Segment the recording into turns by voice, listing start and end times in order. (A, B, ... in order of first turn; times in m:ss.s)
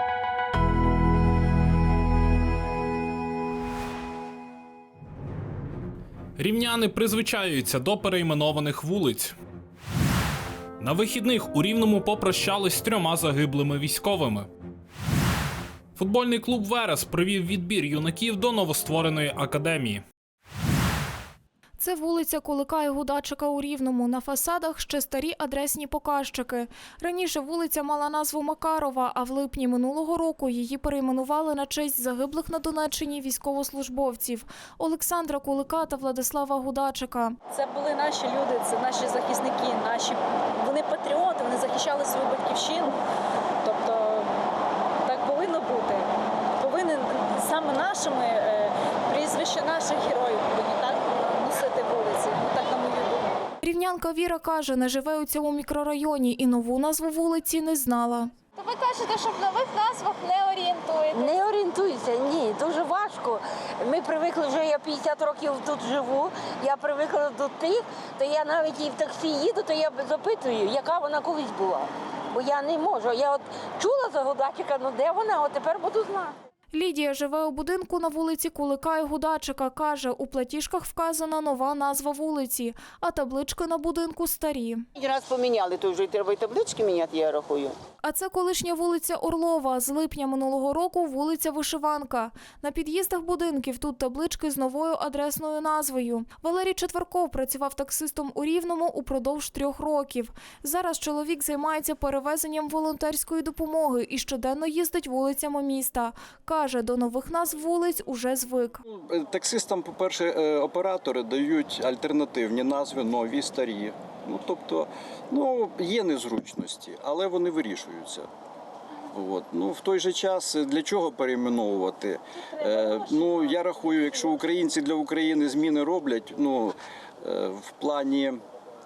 0:06.4-0:09.3 A
0:10.8-0:14.5 A
0:16.0-0:20.0 A
0:21.8-0:37.4 B
0:37.5-0:43.0 C
0:43.6-0:44.3 C
0:45.0-0:53.4 C
0:53.6-0:58.3 B
0:58.6-1:01.1 D
1:01.1-1:16.4 E
1:16.7-1:24.8 B
1:25.3-1:27.7 F
1:28.0-1:48.8 B
1:48.9-1:58.3 G
1:59.1-2:08.4 G